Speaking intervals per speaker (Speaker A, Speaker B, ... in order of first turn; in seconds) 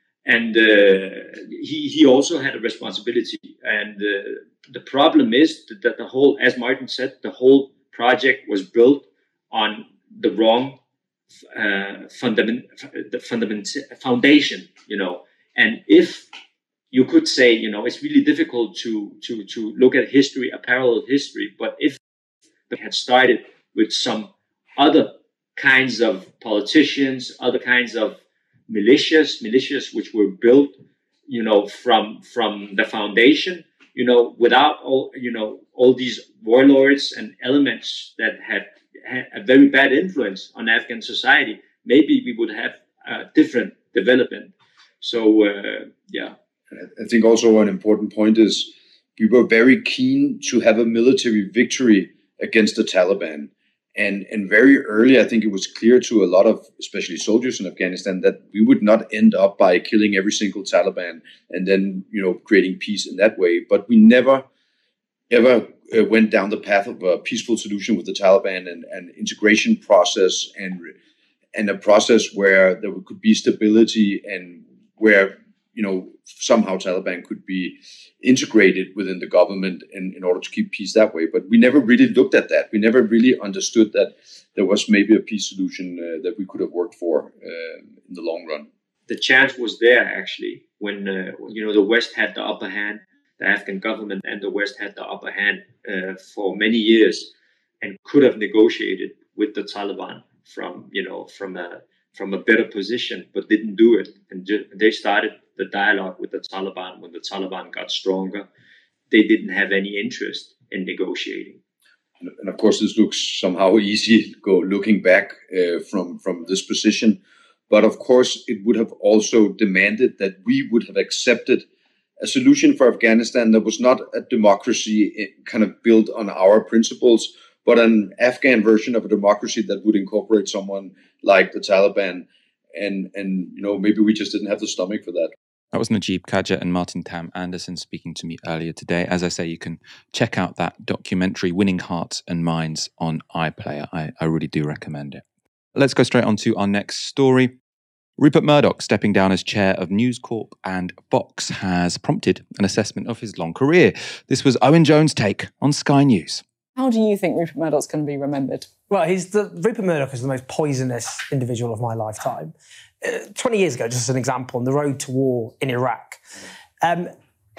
Speaker A: 0.2-10.8, 11.5-16.3, 16.9-22.0, 22.7-30.8, 31.3-46.3, 89.1-97.3, 97.8-108.5, 109.1-111.6
Speaker B: 46.8-64.5, 65.3-70.9, 71.5-88.7, 112.2-121.6, 122.2-135.3
Speaker C: 135.7-145.2, 145.8-147.5, 148.2-156.4
Speaker D: 156.8-158.7
Speaker E: 158.9-166.2, 166.8-167.1